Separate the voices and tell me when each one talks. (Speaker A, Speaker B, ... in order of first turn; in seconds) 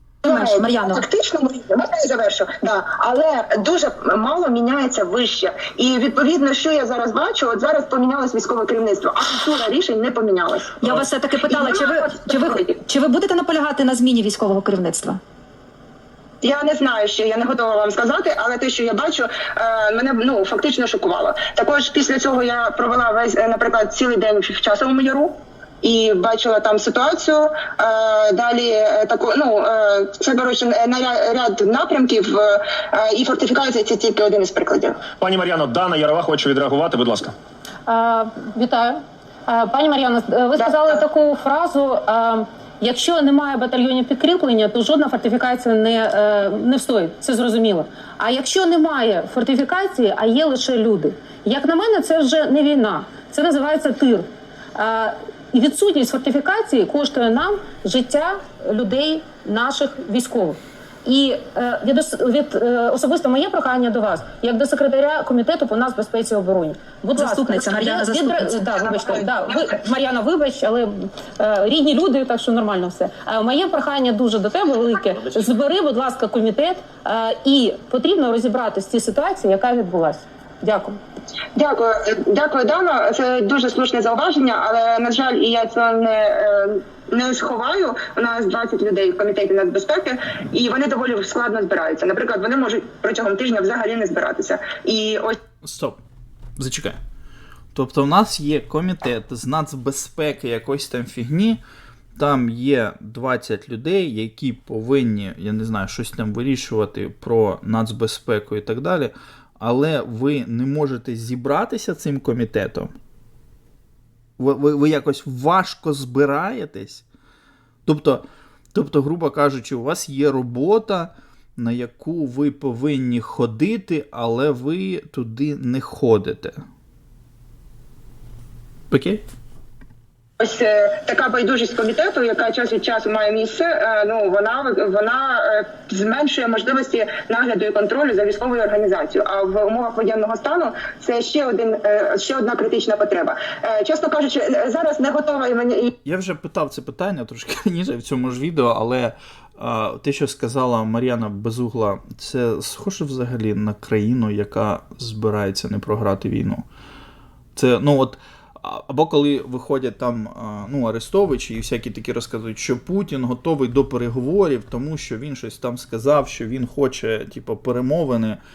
Speaker A: 0.2-12.7, 16.4-35.0, 40.6-41.0, 81.5-95.4, 130.4-145.9
Speaker B: 0.2-1.0, 10.8-15.2, 67.2-68.7
Speaker C: 35.2-37.3
Speaker D: 37.9-81.0
Speaker E: 95.6-96.0, 96.6-97.0, 97.7-101.6, 102.2-112.9, 114.4-117.0, 117.8-126.6, 128.9-129.2, 146.0-156.6, 157.5-168.4